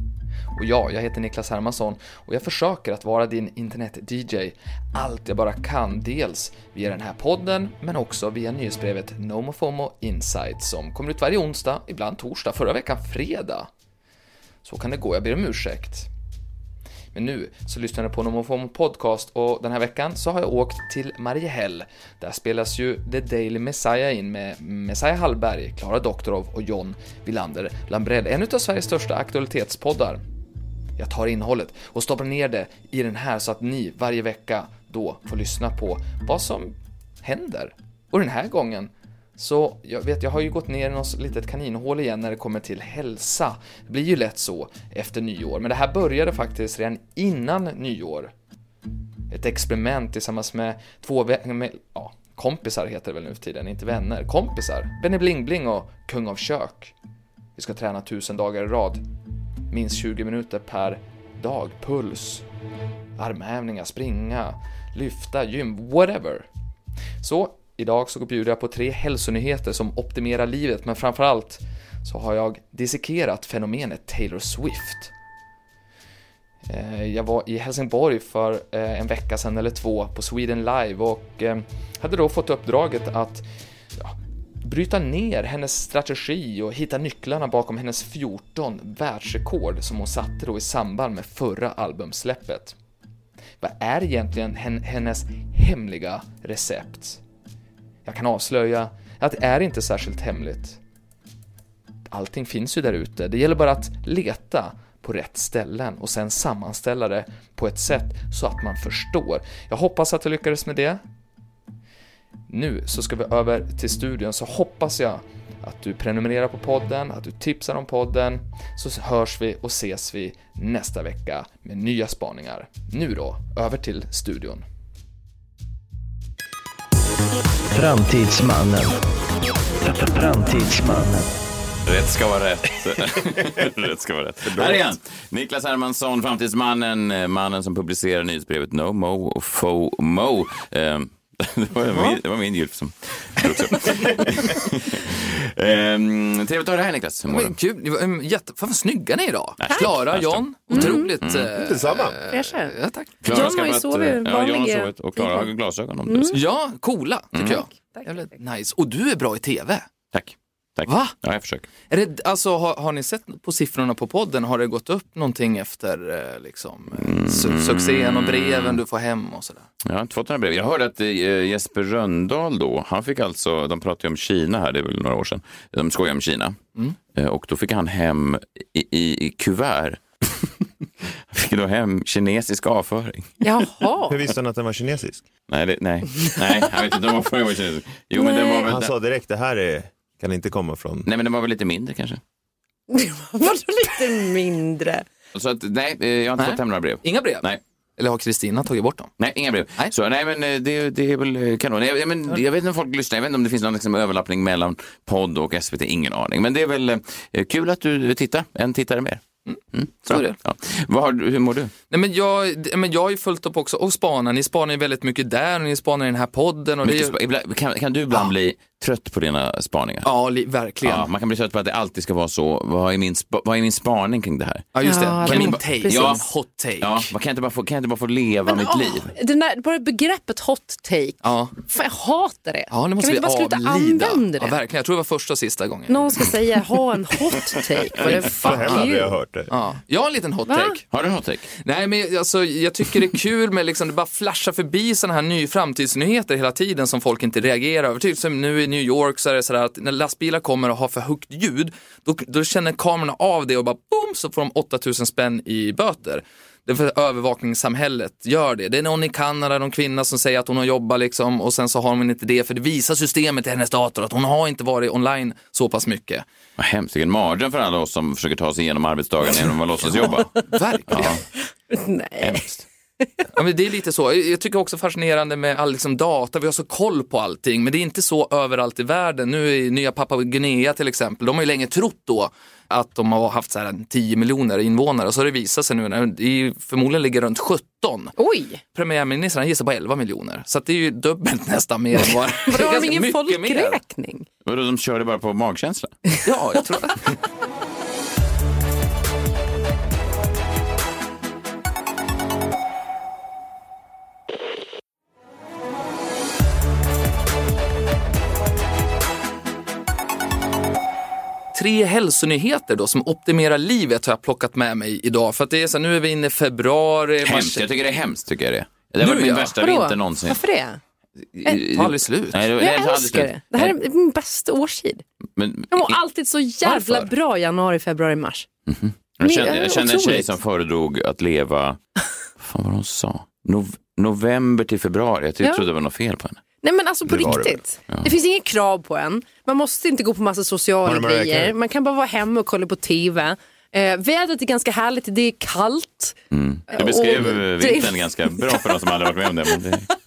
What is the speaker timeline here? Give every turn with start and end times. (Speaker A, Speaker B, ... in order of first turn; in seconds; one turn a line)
Speaker A: 0.5-13.7
Speaker A: 14.6-16.1
Speaker A: 17.1-30.2
Speaker A: 31.0-48.3
Speaker A: 49.3-56.9
Speaker A: 57.6-59.0
Speaker A: 59.7-62.4
Speaker A: 63.2-66.5
Speaker A: 67.2-75.1
Speaker A: 76.7-83.4
Speaker A: 84.0-92.8
Speaker A: 93.6-97.2
Speaker A: 98.0-100.8
Speaker A: 102.1-111.0
Speaker A: 112.5-124.6
Speaker B: 127.7-129.0
Speaker B: 129.8-131.4
Speaker C: 131.8-147.5
Speaker D: 133.4-133.7
Speaker D: 134.4-134.9
Speaker E: 143.4-144.2
Speaker A: 147.3-153.2
Speaker C: 149.6-151.5
Speaker E: 150.7-151.1
Speaker D: 151.4-152.2
Speaker E: 152.3-152.7
Speaker C: 153.2-156.4
Speaker E: 153.3-155.5
Speaker E: 156.1-156.4
Speaker A: 156.3-159.9
Speaker C: 157.3-157.6
Speaker E: 157.7-158.3
Speaker C: 160.1-161.7
Speaker A: 160.8-161.1
Speaker A: 161.9-169.7
Speaker C: 166.9-168.8
Speaker C: 169.8-176.6
Speaker C: 177.1-180.5
Speaker C: 181.3-183.4
Speaker E: 183.4-184.2
Speaker D: 184.1-185.3
Speaker C: 185.5-188.9
Speaker E: 188.2-188.6
Speaker D: 188.6-191.1
Speaker C: 191.1-192.2
Speaker E: 192.9-195.0
Speaker C: 195.3-197.6
Speaker A: 196.4-197.4
Speaker A: 198.0-199.1
Speaker C: 199.2-209.2
Speaker A: 209.5-210.4
Speaker C: 209.7-211.7
Speaker A: 211.9-217.1
Speaker C: 216.8-220.1
Speaker A: 220.0-221.1
Speaker C: 220.8-224.7
Speaker A: 224.7-227.1
Speaker E: 224.8-226.1
Speaker C: 225.2-226.2
Speaker C: 226.8-229.1
Speaker E: 228.4-234.6
Speaker A: 231.2-231.6
Speaker A: 232.7-236.3
Speaker E: 235.9-239.1
Speaker A: 238.0-238.9
Speaker D: 238.4-239.5
Speaker A: 239.5-240.8
Speaker E: 240.5-240.8
Speaker C: 240.9-241.5
Speaker A: 241.6-266.2
Speaker C: 266.6-270.3
Speaker A: 269.8-271.2
Speaker C: 270.9-271.2
Speaker E: 271.7-272.5
Speaker C: 272.2-272.6
Speaker A: 273.3-288.1
Speaker E: 288.2-288.6
Speaker A: 288.7-293.8
Speaker E: 292.4-294.2
Speaker C: 294.4-295.9
Speaker A: 296.2-297.1
Speaker A: 311.5-317.6
Speaker C: 317.2-320.4
Speaker A: 319.0-319.5
Speaker E: 319.5-320.8
Speaker C: 321.4-323.8
Speaker A: 321.4-322.4
Speaker E: 322.5-325.0
Speaker C: 325.4-326.0
Speaker E: 325.7-328.5
Speaker A: 326.6-327.1
Speaker C: 328.7-331.8
Speaker E: 329.2-330.3
Speaker C: 332.4-336.4
Speaker E: 336.6-346.1
Speaker D: 337.1-337.6
Speaker D: 340.8-341.5
Speaker C: 346.3-349.9
Speaker E: 346.7-348.8